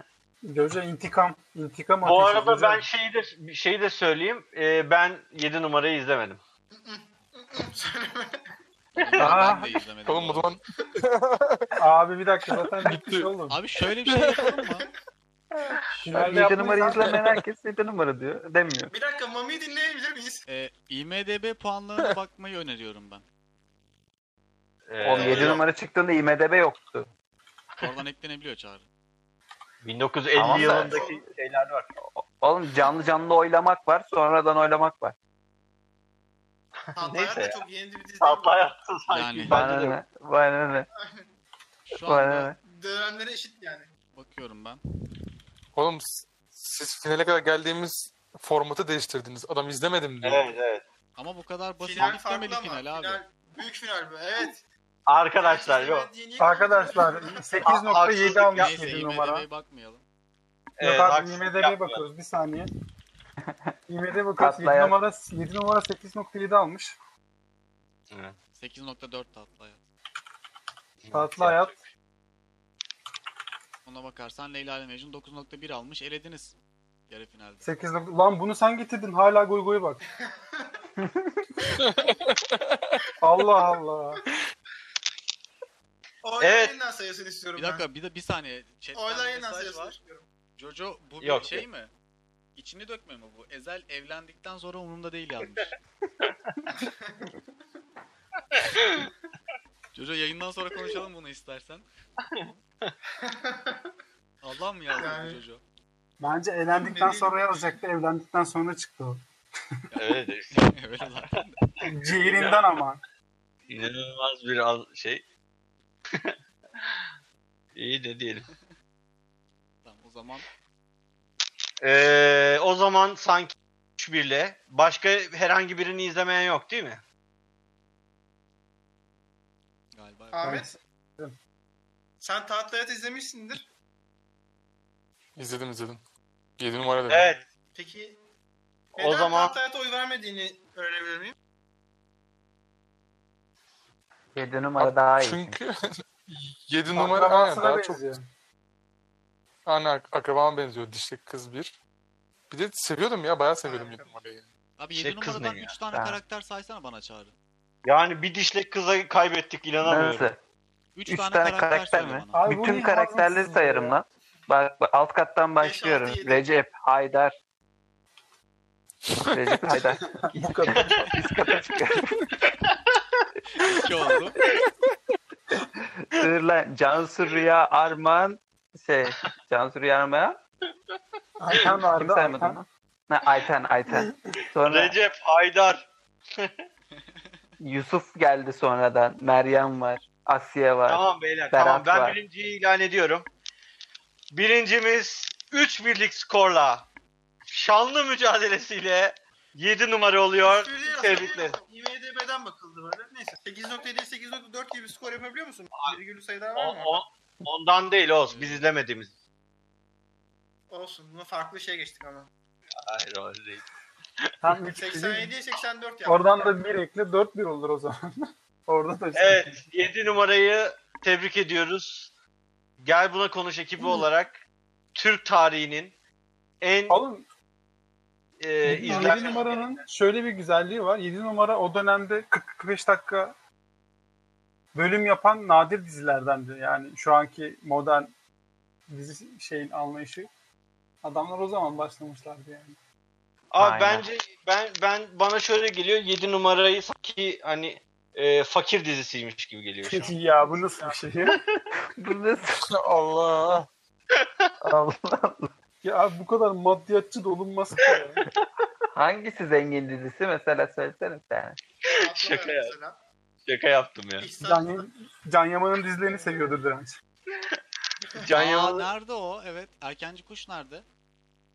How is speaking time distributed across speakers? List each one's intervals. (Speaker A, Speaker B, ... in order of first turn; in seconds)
Speaker A: 0.5-2.8, 9.2-9.8, 11.8-13.6, 16.0-17.2, 56.4-59.5, 60.8-62.7, 63.9-67.0, 71.1-71.7, 77.6-80.0, 83.2-84.2, 106.2-109.2, 111.8-113.0, 130.4-131.3, 146.9-148.2, 162.3-164.0, 169.9-171.2, 181.4-182.6, 183.9-184.4, 214.4-215.3, 216.1-218.0, 218.7-219.5, 226.9-227.2, 228.6-233.3, 234.7-238.1, 238.9-240.3, 241.0-242.8, 249.8-251.4, 255.8-258.2, 264.4-267.0
Speaker B: 2.0-6.4, 9.0-9.3, 24.9-25.6, 29.8-31.9, 37.0-37.6, 38.2-40.0, 50.2-50.8, 55.1-56.1, 57.6-58.8, 60.8-62.0, 71.0-71.8, 86.4-86.7, 91.2-91.7, 102.3-103.0, 110.0-111.1, 112.3-112.6, 113.7-115.2, 116.1-117.0, 117.8-118.5, 121.8-127.0, 137.1-137.4, 138.9-139.6, 154.9-155.7, 157.8-160.3, 184.7-186.6, 190.9-193.3, 194.3-196.9, 197.5-201.6, 206.6-209.1, 212.8-213.6, 219.1-222.1, 222.8-224.4, 224.9-225.9, 226.6-227.0, 228.4-229.6, 243.5-250.2, 254.1-254.5, 257.8-258.4, 261.9-262.7, 263.4-264.3, 267.3-267.6, 268.1-268.9
Speaker C: 6.8-8.4, 18.9-20.4, 30.5-31.2, 37.0-38.5, 41.0-41.3, 42.6-43.9, 51.8-54.6, 55.4-57.6, 80.2-80.8, 86.2-87.8, 89.0-90.3, 96.7-97.4, 103.2-103.9, 105.0-105.4, 106.8-107.6, 130.3-130.7, 132.2-133.7, 137.8-138.2, 139.0-141.3, 153.6-154.2, 165.6-166.5, 200.4-207.0, 210.7-212.3, 214.7-216.6, 229.0-229.4, 250.4-250.9, 261.9-263.0, 264.2-264.9, 266.1-266.5
Speaker D: 9.0-10.6, 13.5-14.9, 15.9-16.3, 20.5-23.2, 27.8-28.8, 39.1-39.6, 41.9-42.5, 44.1-44.8, 51.2-53.2, 58.4-60.0, 68.6-69.8, 73.8-76.5, 77.1-77.7, 87.6-90.0, 90.6-91.9, 92.6-95.8, 100.0-101.9, 104.4-105.6, 109.9-111.6, 119.8-120.5, 129.9-130.6, 154.8-157.3, 160.9-162.4, 173.6-174.4, 208.3-208.7, 268.3-270.8
Speaker E: 10.1-11.8, 12.6-13.3, 14.0-14.6, 17.1-17.4, 45.8-50.4, 81.8-83.0, 135.4-136.0, 136.6-137.3, 144.8-145.9, 146.7-148.0, 149.7-151.8, 152.5-154.5, 252.7-253.7
Speaker F: 16.1-18.9, 25.0-27.1, 30.4-31.0, 32.1-35.1, 39.5-40.9, 42.1-42.6, 63.5-63.7, 64.4-65.0, 81.0-81.5, 144.3-145.6, 155.9-156.2, 159.8-160.4, 161.1-167.3, 169.3-172.2, 175.8-180.4, 181.5-185.0, 187.6-192.2, 243.6-244.1, 252.0-252.6, 254.6-255.5, 258.9-261.6